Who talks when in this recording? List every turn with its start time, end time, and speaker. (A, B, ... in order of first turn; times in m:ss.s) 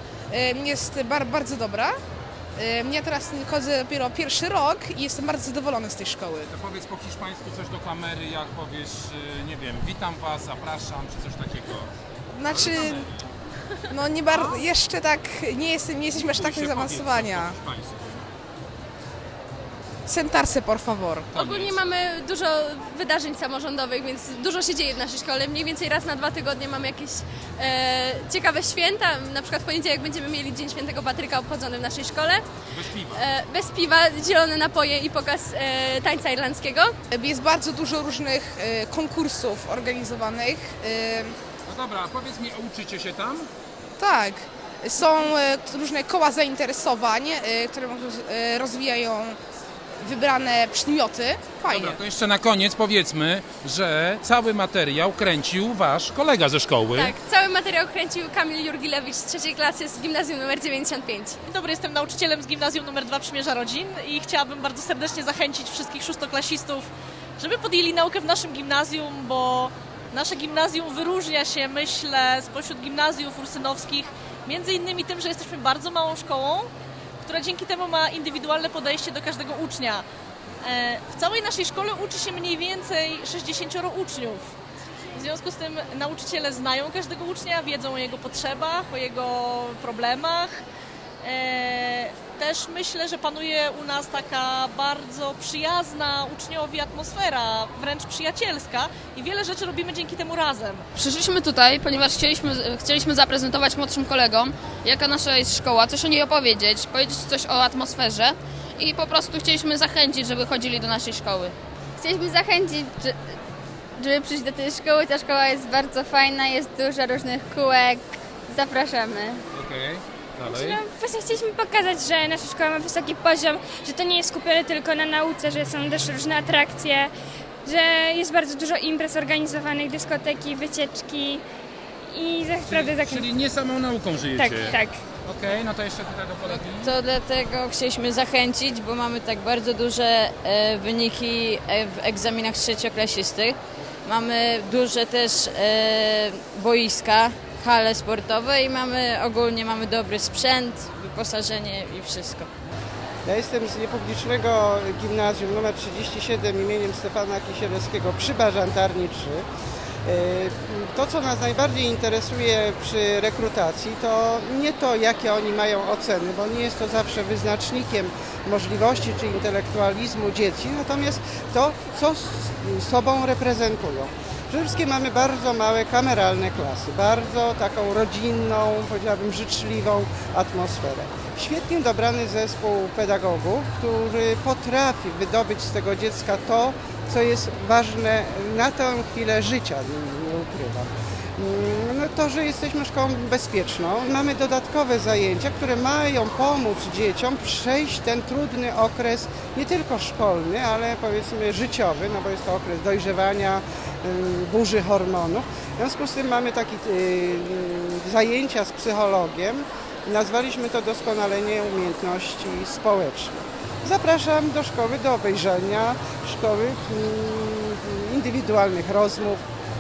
0:00.3-0:01.9 A
0:02.6-0:06.4 A
0:06.4-0:11.9 B
0:12.3-0:13.1 A
0:12.5-0:13.1 B
0:13.9-0:17.5 A
0:14.3-0:14.6 C
0:16.1-0:18.3 B
0:20.1-0:21.3 A
0:21.3-0:21.8 B
0:21.4-0:32.4 C
0:32.7-0:33.2 B
0:33.1-0:36.9 C
0:37.1-0:41.3 A
0:41.6-0:43.5 B
0:44.0-0:49.4 A
0:50.0-0:52.0 A
0:51.6-0:57.1 B
0:56.9-1:01.4 C
1:01.5-1:16.7 D
1:17.2-1:20.0 D
1:20.6-1:24.5 D
1:25.1-1:30.6 D
1:31.2-1:40.8 D
1:40.9-1:51.5 E
1:52.0-1:53.2 F
1:54.0-1:59.4 F
1:59.5-2:00.8 B
2:00.4-2:07.1 G
2:07.6-2:11.4 G
2:12.1-2:13.3 G
2:12.6-2:16.9 B
2:14.2-2:15.0 G
2:16.5-2:32.5 H
2:33.2-2:39.4 I
2:40.0-3:39.4 I